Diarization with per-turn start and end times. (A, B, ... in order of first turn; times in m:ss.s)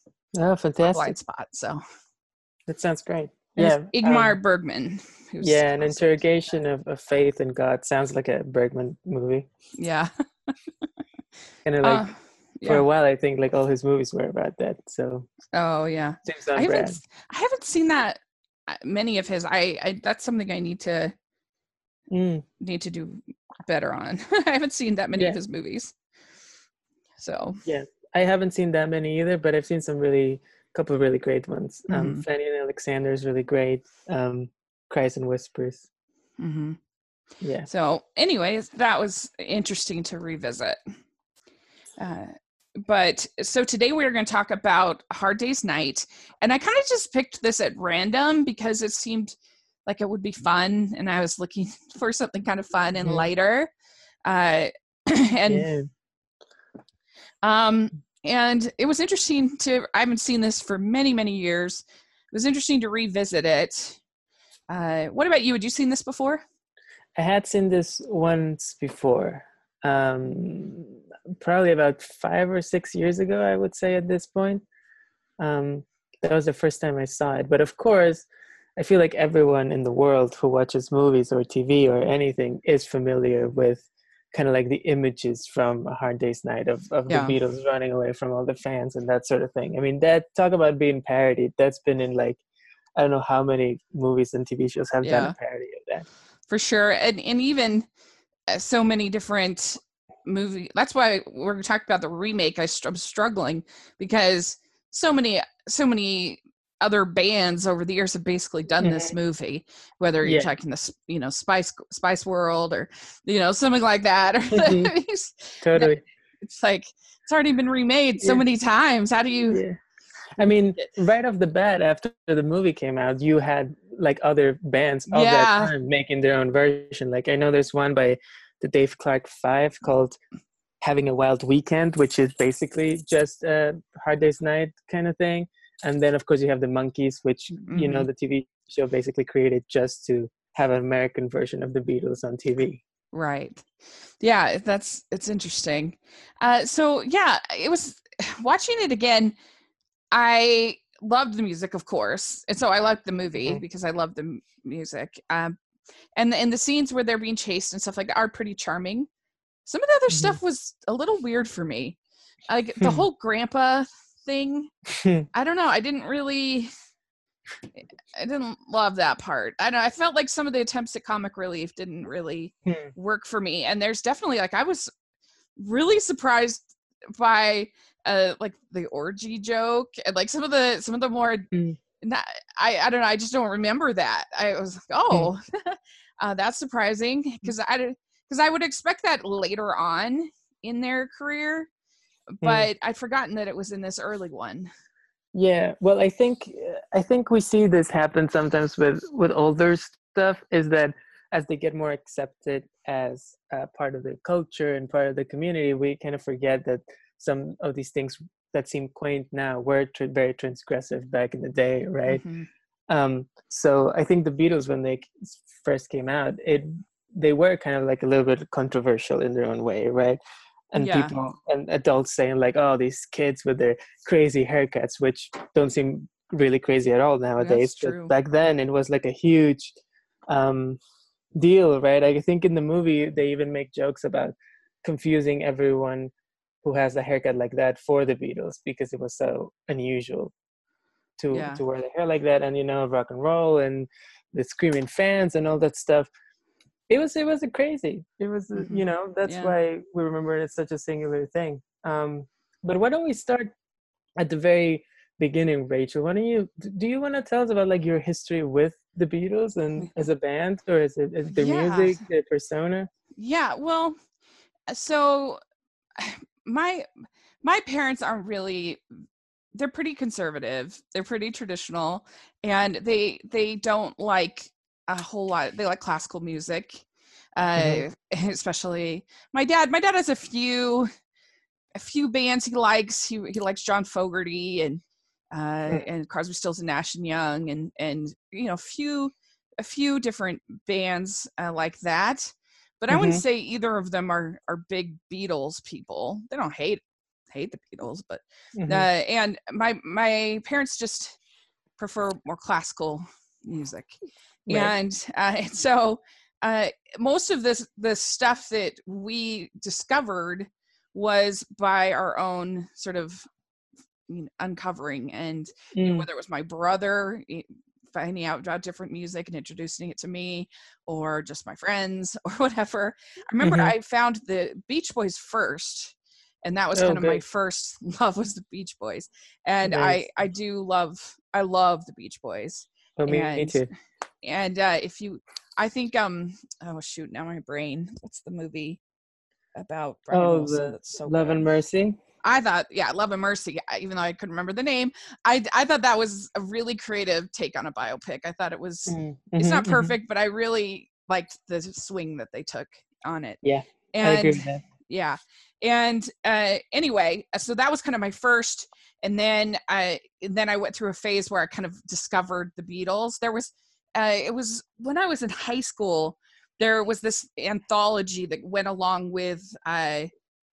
0:00.3-0:01.2 A
0:00.8-0:01.8 B
0:02.7-0:04.4 A
0:03.6-0:06.1 B
0:05.4-0:09.5 A
0:09.8-0:10.1 B
0:11.6-0:12.0 A
0:11.8-0:12.8 B
0:12.6-0:15.3 A
0:15.5-0:21.1 B
0:16.2-0:17.0 A
0:22.1-0:22.4 A
0:22.6-0:25.9 B
0:27.2-0:27.6 B
0:27.6-0:35.8 A
0:31.9-0:32.2 B
0:36.4-0:36.8 B
0:37.4-0:37.7 A
0:37.6-0:40.8 B
0:42.0-0:49.3 B
0:49.8-0:53.7 B
0:54.2-0:55.7 B
0:55.5-0:55.9 A
0:57.4-1:04.0 B
1:04.7-1:06.4 B
1:07.2-1:14.6 A
1:15.4-1:32.4 A
1:27.1-1:27.4 B
1:33.0-1:36.0 A
1:35.0-1:35.4 B
1:36.5-1:37.9 B
1:38.5-1:59.6 B
1:48.8-1:49.1 A
1:50.2-1:50.5 A
1:54.5-1:54.9 A
1:55.6-1:56.0 A
1:59.5-1:59.8 A
2:00.4-2:10.2 A
2:05.1-2:05.7 B
2:10.8-2:22.8 A
2:17.6-2:18.1 B
2:23.1-2:23.7 B
2:24.2-2:29.3 B
2:30.1-2:35.6 B
2:36.2-2:39.1 B
2:39.6-2:42.0 B
2:40.1-2:40.4 A
2:42.5-2:44.7 B
2:42.8-2:43.0 A
2:44.9-2:45.3 A
2:45.3-2:46.7 B
2:48.1-2:54.9 B
2:52.7-2:52.9 A
2:55.6-3:01.5 B
3:01.5-3:01.8 A
3:02.0-3:11.7 B
3:12.4-3:14.7 B
3:12.4-3:12.7 A
3:15.3-3:32.2 A
3:32.1-3:32.5 B
3:32.9-3:40.2 A
3:40.7-3:49.8 A
3:40.8-3:41.2 B
3:47.4-3:48.1 B
3:50.3-3:50.8 A
3:51.4-3:56.1 A
3:56.6-4:00.3 A
4:01.2-4:06.1 A
4:01.3-4:01.6 B
4:06.9-4:13.5 A
4:08.5-4:09.5 B
4:14.2-4:22.9 A
4:21.3-4:22.0 B
4:23.2-4:24.0 B
4:24.7-4:25.4 B
4:26.0-4:26.9 B
4:27.4-4:28.8 B
4:29.5-4:36.8 B
4:37.4-4:40.9 B
4:37.6-4:37.8 A
4:41.7-4:44.8 B
4:45.3-5:01.2 B
4:52.9-4:53.2 A
4:58.6-4:58.9 A
5:01.8-5:03.9 B
5:04.5-5:04.7 A
5:04.5-5:13.3 B
5:14.1-5:33.6 B
5:15.7-5:16.1 A
5:23.4-5:23.7 A
5:26.7-5:27.2 A
5:29.6-5:30.0 A
5:33.0-5:33.7 A
5:34.2-5:38.8 B
5:39.6-5:41.4 B
5:40.1-5:42.0 A
5:42.2-5:53.4 B
5:48.9-5:49.9 A
5:53.4-5:54.6 A
5:53.9-6:10.1 B